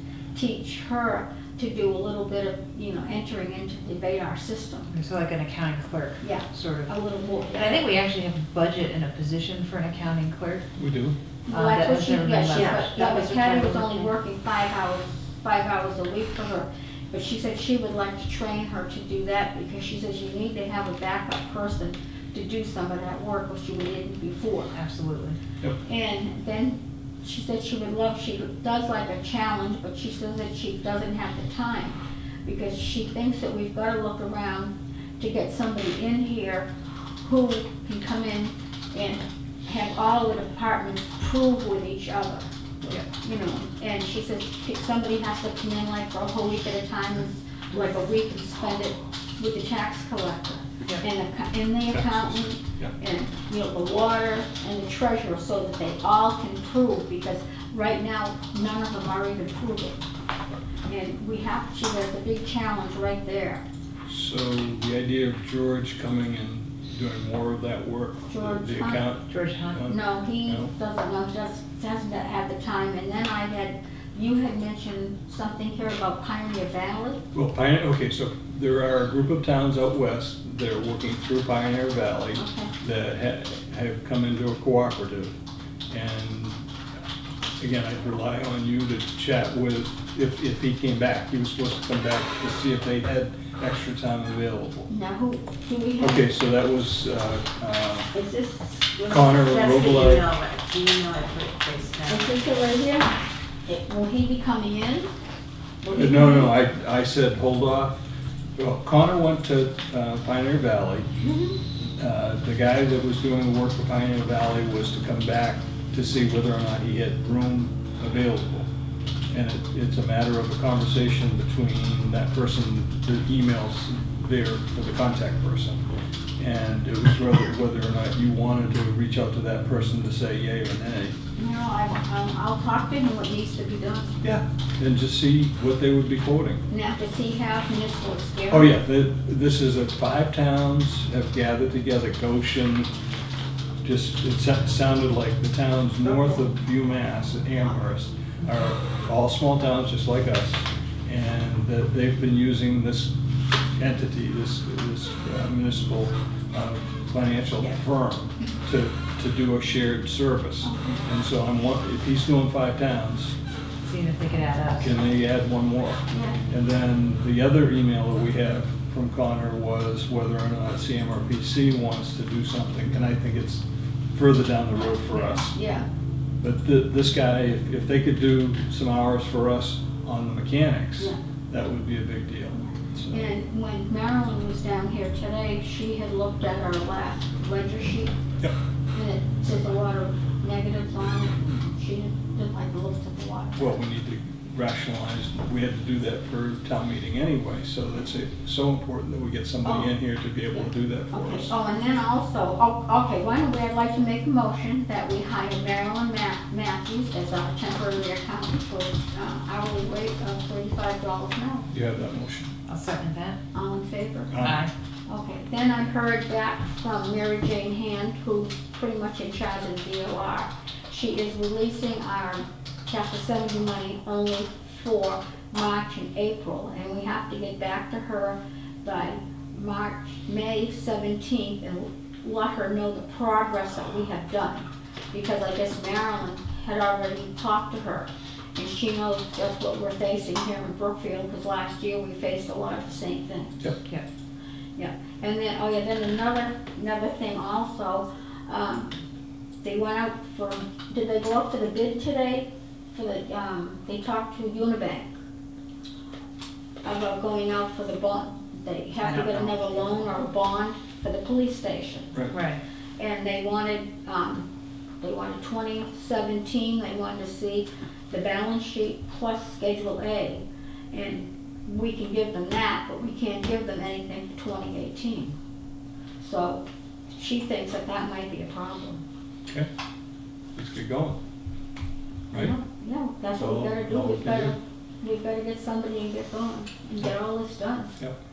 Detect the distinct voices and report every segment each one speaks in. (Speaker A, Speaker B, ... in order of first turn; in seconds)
Speaker A: 0.3-4.9, 6.2-7.8, 11.5-24.7, 25.9-36.7, 37.2-42.5, 43.1-60.0, 60.9-63.6, 68.3-69.0, 69.9-77.2, 82.3-82.7, 94.9-96.3, 102.1-103.1, 103.7-105.1, 105.8-106.5, 111.2-111.6, 131.4-134.2, 136.7-138.8, 160.6-161.0, 166.1-166.4, 174.9-175.9, 183.1-188.2, 188.9-193.8, 199.6-199.9, 200.5-211.7, 213.5-214.4, 215.1-243.7, 244.8-248.9, 249.6-255.2, 256.8-262.1, 263.0-264.5, 265.0-275.4, 276.2-276.6, 277.1-279.0, 282.3-288.0
Speaker B: 4.9-6.9, 7.5-10.7, 11.5-14.1, 24.7-25.4, 69.3-69.8, 163.8-164.9, 212.7-213.4, 214.4-214.7, 259.2-259.6, 262.3-262.6
Speaker C: 10.8-11.2, 51.9-52.9, 64.1-70.7, 77.3-85.4, 85.9-86.6, 87.6-94.9, 96.0-98.1, 99.1-100.3, 105.9-108.0, 108.6-111.1, 112.0-118.7, 119.3-125.8, 126.4-131.2, 134.2-136.6, 138.5-142.9, 143.8-153.1, 153.8-163.3, 164.8-173.6, 174.1-175.6, 176.4-183.3, 193.6-201.5, 211.7-212.5, 214.3-214.6, 280.6-281.2, 283.4-284.6
Speaker D: 12.5-12.9, 98.1-102.4